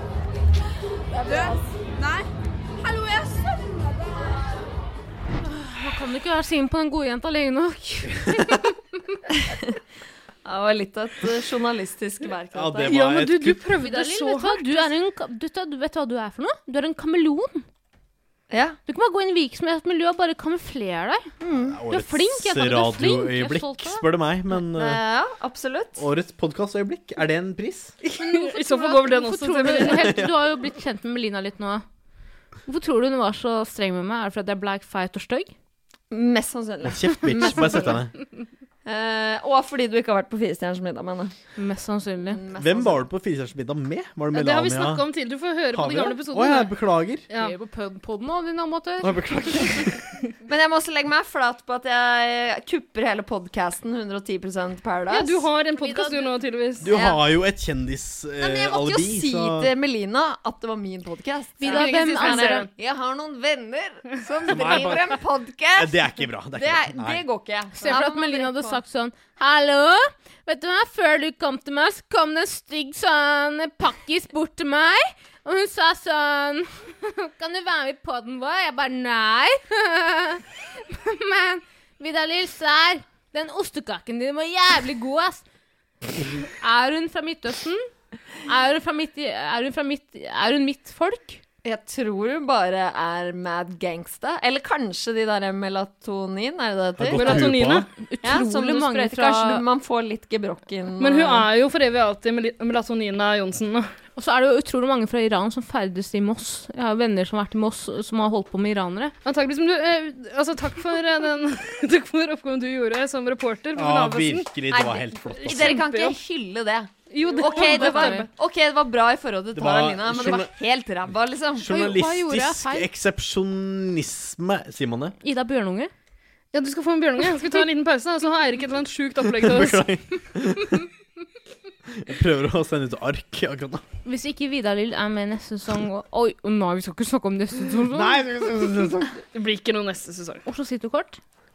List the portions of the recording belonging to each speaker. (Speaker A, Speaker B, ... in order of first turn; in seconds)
Speaker A: 1.1-2.2, 2.8-4.4
Speaker B: 1.2-1.6, 9.3-9.8, 10.4-13.0, 18.5-18.8, 21.4-21.8, 24.6-26.1, 36.1-38.0, 38.8-41.3, 42.3-43.0, 50.4-55.5, 56.9-57.2, 58.4-66.0, 66.5-68.8, 91.6-97.5, 98.2-101.5, 114.7-121.7
Speaker C: 5.5-9.2, 13.8-17.6, 18.9-21.4, 21.9-24.0, 28.2-31.8, 32.6-35.5, 41.6-42.4, 47.4-49.2, 55.7-56.3, 61.6-62.7, 67.7-85.4, 86.5-87.9, 88.4-91.4, 98.0-99.6, 104.2-109.1, 117.3-118.3, 121.7-122.9, 125.2-125.9, 134.0-138.2, 140.4-141.2
Speaker D: 12.5-13.6, 21.5-25.0, 26.0-27.9, 29.7-30.3, 36.8-38.1, 42.6-45.0, 45.7-47.2, 49.0-50.0, 56.8-59.7, 64.5-65.2, 65.7-67.2, 97.0-97.9, 113.7-115.8, 119.5-120.5, 121.5-125.2, 129.3-130.9, 131.9-133.8, 137.9-139.1
Speaker E: 12.9-14.9, 28.0-30.1, 44.3-46.7, 47.3-47.5, 55.1-56.9, 61.6-62.7, 97.1-97.9, 101.0-103.9, 109.2-114.5, 115.3-116.2, 117.1-118.3, 126.5-129.8, 139.3-140.4